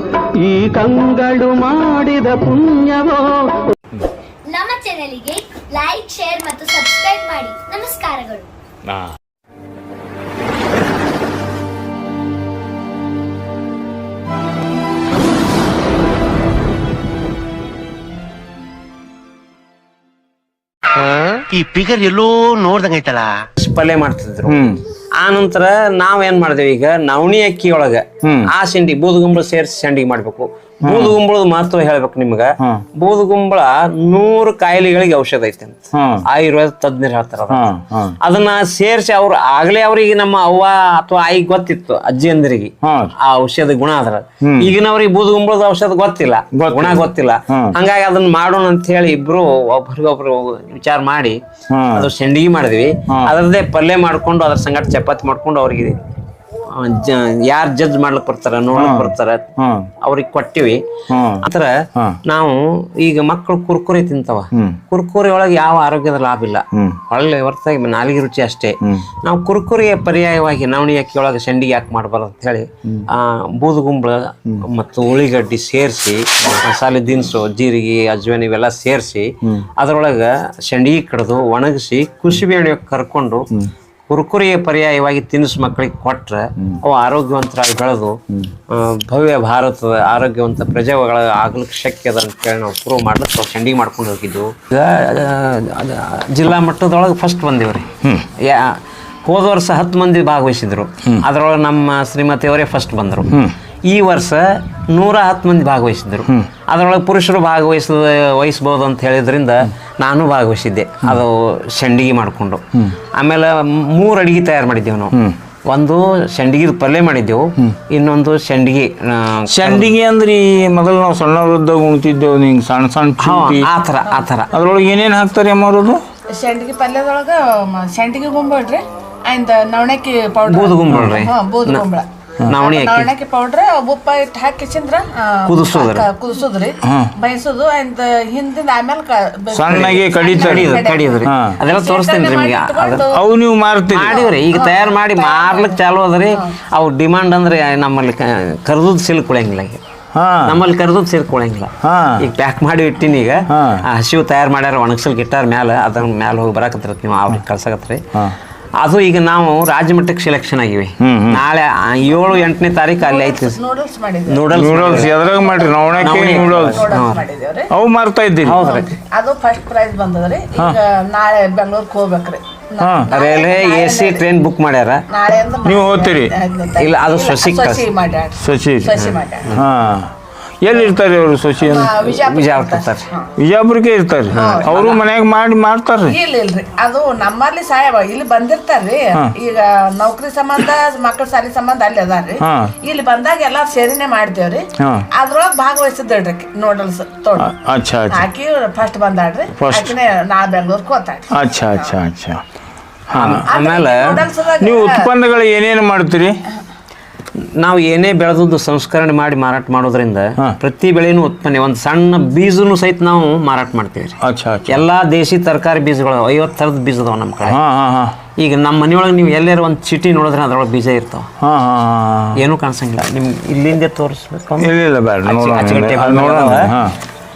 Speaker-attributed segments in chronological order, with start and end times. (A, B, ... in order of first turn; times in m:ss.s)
0:00.4-0:03.7 A
0:04.5-0:08.5 B
0:08.9-0:09.2 C
0:20.9-0:23.4 D
0:23.6-0:24.6 E
0:24.5-0:24.8 C
0:25.2-0:51.4 E
0:28.2-0:28.5 C
0:30.8-0:31.2 C
0:35.9-0:36.3 C
0:37.5-0:38.2 C
0:42.8-0:43.1 C
0:44.4-0:44.7 C
0:46.5-0:47.8 C
0:51.7-0:52.1 C
0:51.9-0:56.0 E
0:53.1-0:53.3 C
0:56.7-0:59.5 E
0:58.8-0:59.9 C
1:00.0-1:00.8 E
1:01.1-1:02.2 C
1:01.4-1:23.5 E
1:04.5-1:04.8 C
1:06.7-1:07.0 C
1:24.1-1:59.9 E
1:38.0-1:38.3 C
1:43.3-1:43.5 C
1:59.5-2:03.7 C
2:03.2-2:04.5 E
2:04.5-2:06.0 C
2:06.4-2:23.2 F
2:10.5-2:11.8 E
2:12.5-2:13.1 E
2:15.4-2:16.1 E
2:16.8-2:17.1 C
2:19.5-2:20.7 C
2:19.8-2:23.0 E
2:21.2-2:21.6 C
2:23.1-2:24.3 C
2:23.9-2:29.8 E
2:24.0-2:25.8 F
2:30.1-2:30.6 C
2:30.4-2:38.0 E
2:31.8-2:32.2 C
2:33.5-2:33.8 C
2:38.8-2:43.6 E
2:41.0-2:41.4 C
2:42.1-2:47.7 F
2:44.3-2:45.1 E
2:44.5-2:46.9 C
2:46.0-2:47.2 E
2:47.7-2:48.6 C
2:48.4-2:48.9 E
2:48.6-2:54.2 F
2:52.8-2:53.1 C
2:53.1-2:55.0 E
2:55.1-2:59.5 F
2:55.6-2:56.4 C
2:56.8-2:57.9 E
2:58.4-3:02.0 C
2:59.0-2:59.6 E
3:01.6-3:03.3 F
3:02.0-3:03.1 E
3:03.4-3:06.2 C
3:04.3-3:05.0 E
3:04.4-3:04.8 F
3:06.1-3:17.5 F
3:12.4-3:12.7 C
3:14.8-3:15.1 C
3:17.4-3:18.3 C
3:18.1-3:21.9 F
3:19.6-3:20.0 C
3:21.3-3:22.4 C
3:23.1-3:23.5 C
3:23.1-3:24.2 E
3:23.4-3:25.1 F
3:24.6-3:26.4 C
3:27.4-3:34.2 E
3:34.2-3:34.8 C
3:34.7-3:37.6 E
3:37.4-3:38.2 C
3:38.4-3:41.3 E
3:41.4-3:42.4 C
3:42.4-3:44.7 E
3:44.6-3:47.0 C
3:45.2-3:46.7 E